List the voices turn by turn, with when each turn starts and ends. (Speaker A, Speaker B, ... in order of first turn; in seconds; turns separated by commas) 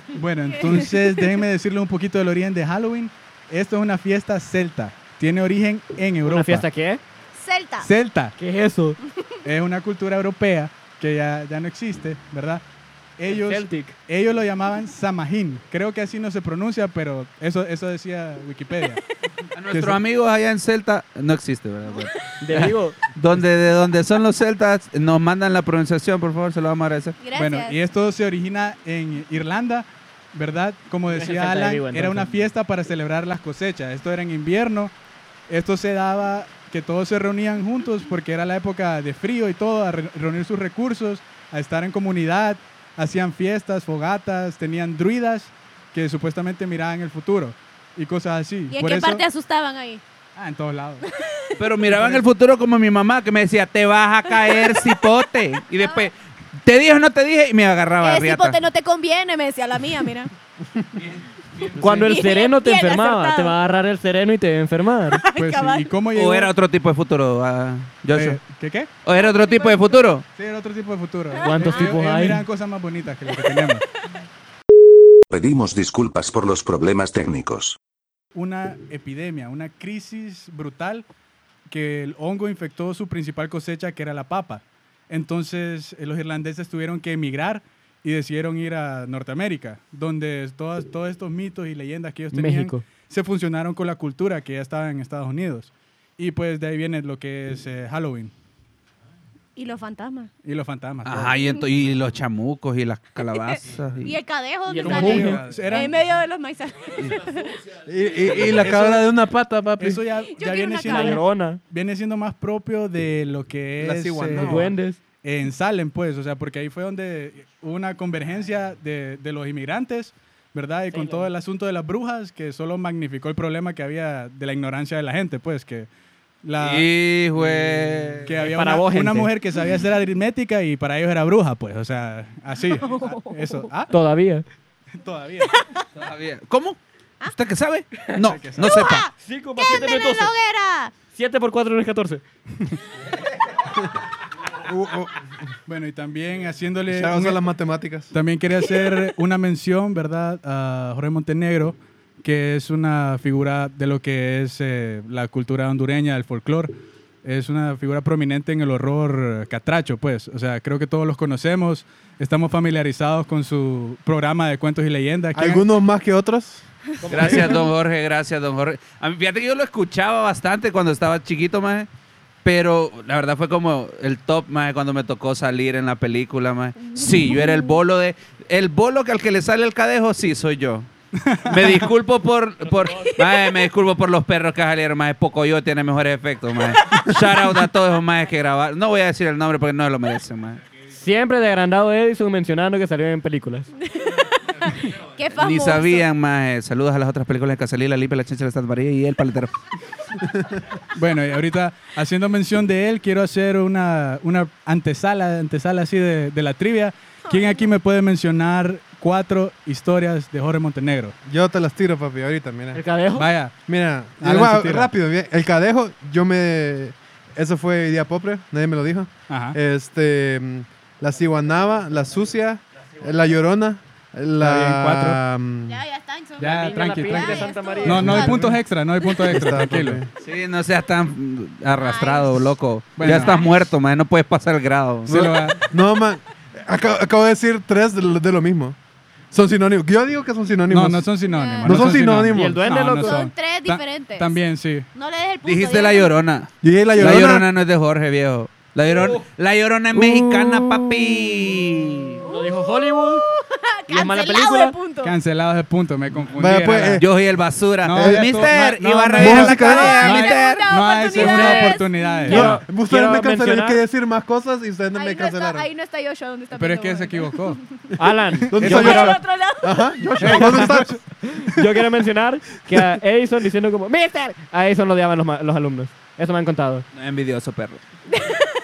Speaker A: 0.1-6.7, Speaker B: 6.2-7.0, Speaker C: 7.3-7.9, Speaker A: 7.8-8.3, Speaker B: 8.4-9.0, Speaker A: 9.4-12.6, Speaker A: 13.2-19.0, Speaker B: 13.3-13.9, Speaker D: 19.5-27.2, Speaker A: 19.7-20.0, Speaker B: 22.4-23.0, Speaker C: 27.2-27.8, Speaker A: 27.4-34.9, Speaker B: 31.1-32.3, Speaker A: 35.5-49.2, Speaker C: 48.7-50.0, Speaker A: 50.4-51.0, Speaker D: 51.5-58.6, Speaker A: 51.9-52.2, Speaker C: 54.3-55.0, Speaker C: 58.0-60.3, Speaker B: 61.8-65.2, Speaker C: 61.9-63.5, Speaker C: 65.1-65.9, Speaker A: 65.3-66.5, Speaker D: 66.1-68.4, Speaker A: 68.1-68.9, Speaker D: 69.0-70.2, Speaker C: 69.1-70.0, Speaker A: 70.3-73.8, Speaker C: 71.3-71.9, Speaker B: 71.4-72.4, Speaker E: 75.3-77.8, Speaker A: 78.3-81.0, Speaker A: 81.7-98.3, Speaker B: 92.3-92.8, Speaker C: 99.5-100.3, Speaker A: 100.4-101.4, Speaker D: 101.0-104.2, Speaker C: 103.2-107.6, Speaker B: 104.7-105.4, Speaker A: 104.8-105.9, Speaker F: 107.8-110.0, Speaker A: 108.6-109.1, Speaker A: 109.8-114.6, Speaker C: 110.3-111.2, Speaker B: 110.9-111.6, Speaker F: 113.8-114.7, Speaker B: 114.4-115.0, Speaker A: 115.2-125.9, Speaker B: 120.9-121.3, Speaker A: 126.4-133.9, Speaker D: 126.6-128.4, Speaker B: 128.5-129.3, Speaker C: 132.8-133.7, Speaker B: 133.9-134.4, Speaker A: 134.9-135.5, Speaker D: 136.0-139.1, Speaker C: 138.0-140.9, Speaker A: 138.2-138.7, Speaker B: 139.2-140.3, Speaker B: 141.1-142.2, Speaker F: 144.6-145.2, Speaker A: 145.7-147.4, Speaker F: 146.9-148.1, Speaker A: 148.1-156.7, Speaker A: 157.2-165.7, Speaker F: 165.3-166.7, Speaker B: 167.0-167.6, Speaker D: 167.1-171.9, Speaker D: 172.4-180.9, Speaker C: 176.9-177.4, Speaker A: 181.2-181.9, Speaker D: 181.4-190.6, Speaker B: 190.9-193.7, Speaker C: 194.6-196.1, Speaker D: 195.3-199.5, Speaker A: 200.9-211.2, Speaker C: 207.3-207.7, Speaker F: 211.2-212.8, Speaker B: 212.7-213.3, Speaker A: 213.2-213.5, Speaker F: 213.6-225.8, Speaker A: 214.2-214.9, Speaker A: 219.3-219.6, Speaker A: 224.4-225.2, Speaker C: 225.7-228.5, Speaker A: 226.4-230.0, Speaker B: 226.4-228.3, Speaker F: 228.0-228.6, Speaker F: 229.2-230.1, Speaker D: 230.2-235.3, Speaker C: 231.8-232.5, Speaker A: 232.9-233.4, Speaker C: 233.0-233.6, Speaker A: 235.1-235.6, Speaker F: 235.1-238.8, Speaker F: 239.3-241.1, Speaker A: 240.7-244.9, Speaker C: 241.2-241.8, Speaker F: 241.6-242.6, Speaker B: 242.3-243.2, Speaker C: 242.8-244.4, Speaker C: 244.9-246.2, Speaker D: 245.4-252.2, Speaker F: 246.6-247.5, Speaker F: 249.9-251.2, Speaker B: 252.2-253.2, Speaker C: 253.3-255.1, Speaker B: 253.9-254.8, Speaker A: 255.0-257.0, Speaker F: 256.3-257.1, Speaker D: 257.0-260.7, Speaker A: 257.8-262.6, Speaker F: 257.9-258.4, Speaker F: 259.2-260.0, Speaker C: 259.7-262.4, Speaker B: 261.2-263.8, Speaker F: 262.3-265.7, Speaker C: 264.9-267.6, Speaker A: 266.5-267.6, Speaker B: 268.0-269.2, Speaker F: 268.5-271.0, Speaker C: 268.7-269.9, Speaker A: 270.2-271.0, Speaker B: 270.3-276.9, Speaker D: 276.9-277.8, Speaker C: 278.2-278.4